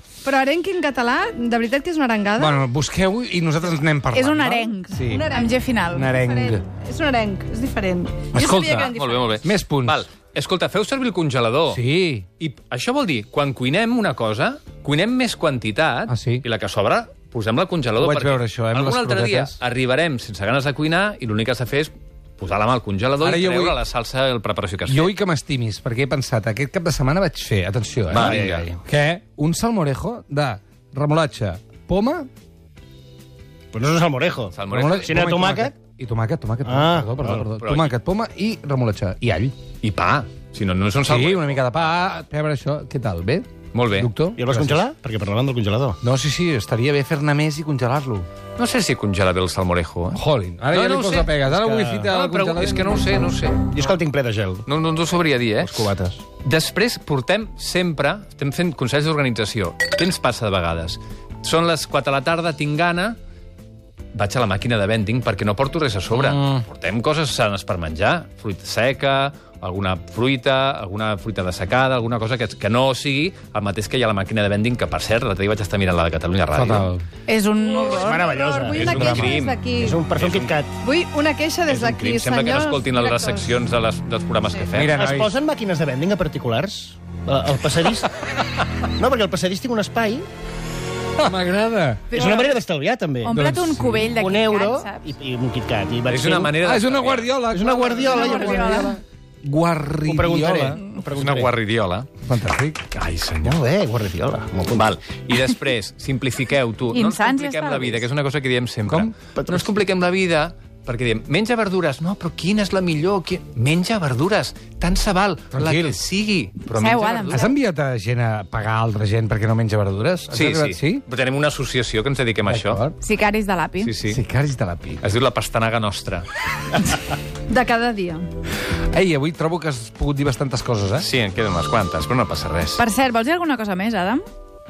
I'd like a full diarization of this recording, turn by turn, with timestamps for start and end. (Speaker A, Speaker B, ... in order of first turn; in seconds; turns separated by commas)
Speaker A: 0.2-2.6, Speaker B: 2.4-5.3, Speaker C: 4.1-6.1, Speaker A: 4.9-9.3, Speaker B: 5.9-6.6, Speaker B: 8.3-10.1, Speaker D: 8.8-11.8, Speaker B: 11.7-12.2, Speaker D: 12.4-25.1, Speaker B: 16.1-16.4, Speaker B: 18.0-19.6, Speaker B: 23.2-23.8, Speaker B: 24.9-32.3, Speaker D: 28.1-28.6, Speaker E: 28.1-28.7, Speaker E: 33.7-35.7, Speaker D: 34.5-35.2, Speaker B: 34.7-39.5, Speaker E: 36.6-37.5, Speaker D: 37.6-37.9, Speaker D: 39.8-41.6, Speaker B: 41.0-44.8, Speaker D: 43.7-44.1, Speaker E: 44.3-46.0, Speaker B: 46.0-48.3, Speaker D: 48.6-51.5, Speaker B: 50.1-53.3, Speaker E: 51.5-52.0, Speaker D: 52.0-53.9, Speaker E: 53.7-54.7, Speaker D: 54.6-63.2, Speaker E: 55.6-56.2, Speaker D: 64.1-76.9, Speaker B: 66.1-66.7, Speaker B: 76.5-77.0, Speaker C: 77.3-78.3, Speaker A: 77.6-80.0, Speaker E: 77.8-80.8, Speaker D: 78.7-80.5, Speaker B: 78.8-79.4, Speaker A: 80.8-83.6, Speaker D: 81.7-85.0, Speaker B: 84.7-85.3, Speaker E: 84.9-88.1, Speaker E: 88.8-90.2, Speaker B: 91.2-92.1, Speaker E: 92.1-93.4, Speaker C: 92.1-92.5, Speaker C: 93.2-95.1, Speaker B: 93.3-94.2, Speaker E: 94.2-96.5, Speaker D: 96.1-97.3, Speaker B: 96.6-100.8, Speaker E: 97.5-99.0, Speaker C: 98.0-99.0, Speaker E: 100.0-101.5, Speaker D: 101.1-102.1, Speaker B: 102.2-102.8, Speaker D: 102.9-103.6, Speaker E: 103.4-104.9, Speaker D: 104.7-117.5, Speaker C: 106.9-108.1, Speaker E: 109.4-109.8, Speaker B: 115.5-116.0, Speaker C: 116.6-117.4, Speaker B: 117.3-121.0, Speaker D: 120.3-122.8, Speaker B: 122.5-122.9, Speaker C: 123.0-123.9, Speaker D: 123.8-124.2, Speaker B: 124.1-125.0, Speaker D: 125.0-126.3, Speaker A: 127.5-128.3, Speaker B: 128.9-131.1, Speaker D: 131.0-132.8, Speaker C: 132.8-134.2